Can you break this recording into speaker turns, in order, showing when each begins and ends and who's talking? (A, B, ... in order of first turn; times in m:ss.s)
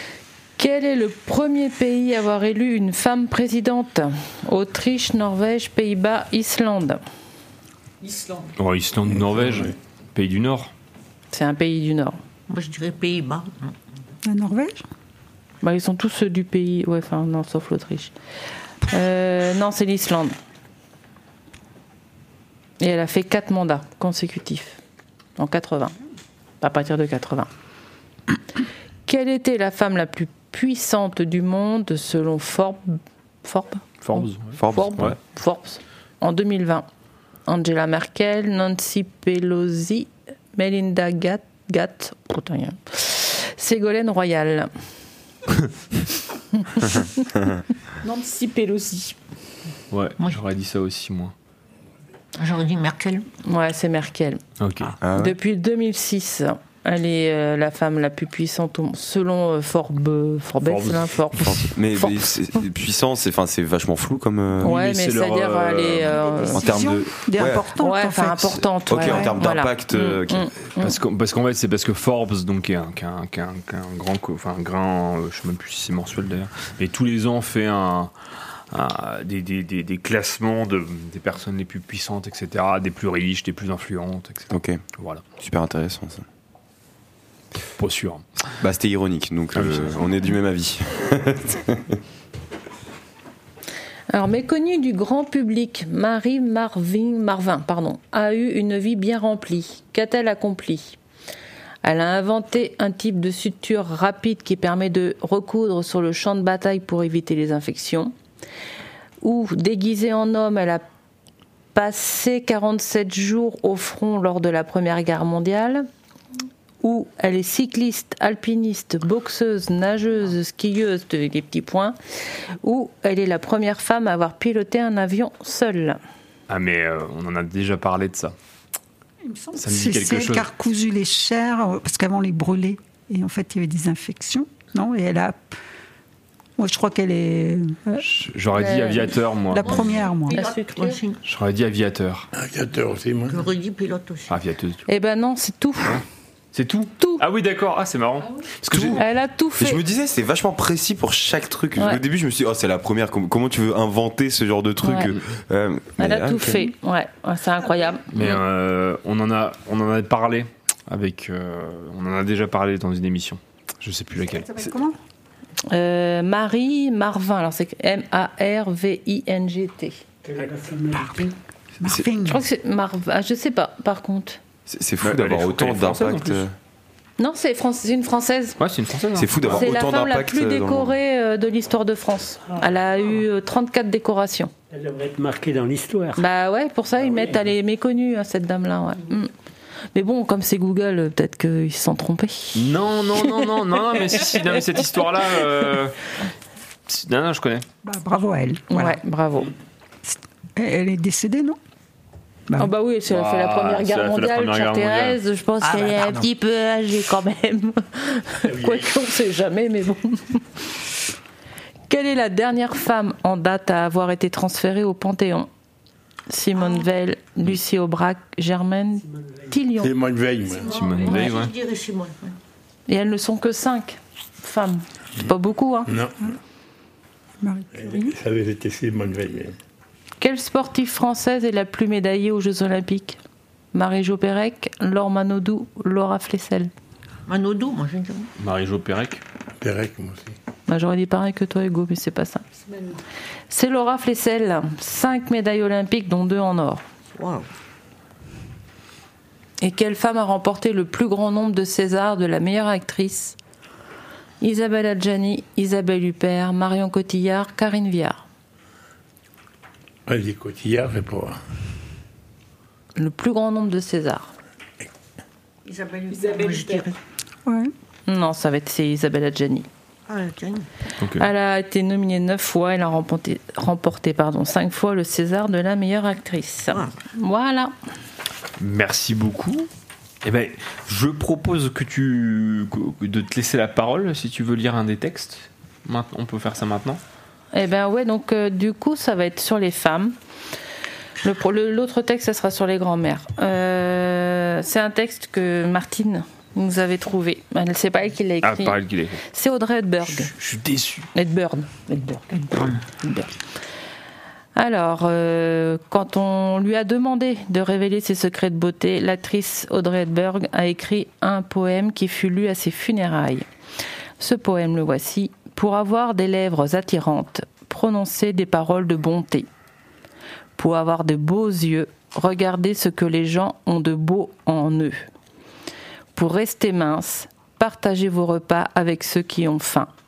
0:00.6-0:07.0 A
0:08.0-0:08.5 B
0:08.6-0:10.7 C
0:09.2-0:09.7 D
0:11.3-0:12.2 A
0:12.5-0:13.8 E
0:14.2-0:14.8 F
0:15.6-0:18.1 A
0:18.9-0:20.4 A
0:22.8-0:24.8 A
0:25.4-0:25.9 A
0:26.6-0:27.5 A
0:29.1-0:36.8 A
0:34.0-0:35.2 C
0:34.6-0:35.2 G
0:37.5-0:44.7 A
0:46.6-0:47.1 A
0:48.0-0:49.2 B
0:49.9-0:51.3 C
0:52.4-0:53.2 E
0:53.4-0:54.4 A
0:54.6-0:54.9 C
0:55.0-0:55.4 G
0:55.1-1:02.2 A
1:00.6-1:01.2 C
1:01.3-1:04.8 G
1:04.6-1:06.4 C
1:04.6-1:06.6 A
1:06.3-1:09.3 F
1:06.5-1:07.7 G
1:07.8-1:11.0 A
1:08.9-1:10.5 G
1:10.8-1:18.1 C
1:18.7-1:25.2 C
1:24.5-1:24.8 G
1:25.4-1:26.2 G
1:27.8-1:28.2 C
1:28.6-1:32.0 G
1:29.5-1:30.1 C
1:34.1-1:41.0 A
1:41.8-1:48.1 A
1:49.2-1:50.8 A
1:51.7-1:55.8 A
1:56.8-2:02.0 A
2:02.6-2:06.0 A
2:06.5-2:08.3 C
2:09.2-2:15.4 F
2:09.6-2:10.4 C
2:16.6-2:18.0 F
2:18.0-2:19.9 C
2:18.6-2:19.1 A
2:19.5-2:20.4 F
2:19.6-2:21.2 E
2:20.3-2:21.0 A
2:21.2-2:22.3 C
2:22.3-2:23.5 D
2:23.3-2:24.4 E
2:24.3-2:24.8 C
2:24.9-2:26.0 A
2:26.5-2:29.0 C
2:28.7-2:29.0 G
2:29.0-2:29.8 A
2:29.6-2:36.6 G
2:34.8-2:35.1 A
2:36.0-2:38.4 A
2:38.1-2:44.5 C
2:44.2-2:45.0 F
2:45.7-2:50.0 A
2:50.2-2:51.3 H
2:51.8-2:52.4 F
2:52.2-2:54.4 A
2:54.7-2:56.5 G
2:55.0-2:56.4 C
2:57.2-2:58.6 A
2:58.6-2:59.7 C
2:59.1-3:00.9 G
2:59.4-3:04.5 A
3:04.7-3:06.2 H
3:06.2-3:09.3 A
3:07.0-3:07.4 H
3:09.9-3:12.6 A
3:12.6-3:16.2 C
3:16.9-3:17.6 C
3:17.8-3:19.0 F
3:18.7-3:19.5 A
3:20.0-3:21.6 F
3:22.6-3:30.5 A
3:23.1-3:25.2 C
3:28.4-3:28.9 D
3:31.9-3:35.5 A
3:36.3-3:39.9 A
3:39.8-3:40.8 D
3:40.6-3:42.4 E
3:40.6-3:41.5 C
3:42.9-3:45.9 A
3:45.8-3:46.4 D
3:47.4-3:48.1 F
3:47.7-3:49.6 D
3:50.2-3:53.2 A
3:53.7-3:56.7 A
3:57.3-3:58.3 E
3:58.4-3:59.2 C
3:59.6-4:00.4 D
4:00.7-4:02.4 A
4:02.7-4:03.0 B
4:03.5-4:06.8 A
4:07.2-4:07.4 E
4:09.6-4:13.4 A
4:14.4-4:18.2 A
4:20.1-4:21.4 D
4:23.0-4:24.3 A
4:25.6-4:26.9 E
4:26.1-4:26.9 B
4:27.4-4:27.7 F
4:28.1-4:29.7 A
4:30.1-4:30.7 E
4:31.0-4:31.3 C
4:31.2-4:37.7 A
4:38.6-4:39.7 C
4:40.2-4:47.0 C
4:47.5-4:50.1 A
4:51.2-5:00.3 A
4:58.4-4:59.2 C
5:00.3-5:01.1 C
5:01.1-5:03.3 A
5:04.5-5:13.4 A
5:14.2-5:19.5 A
5:20.6-5:25.1 A
5:26.1-5:29.9 A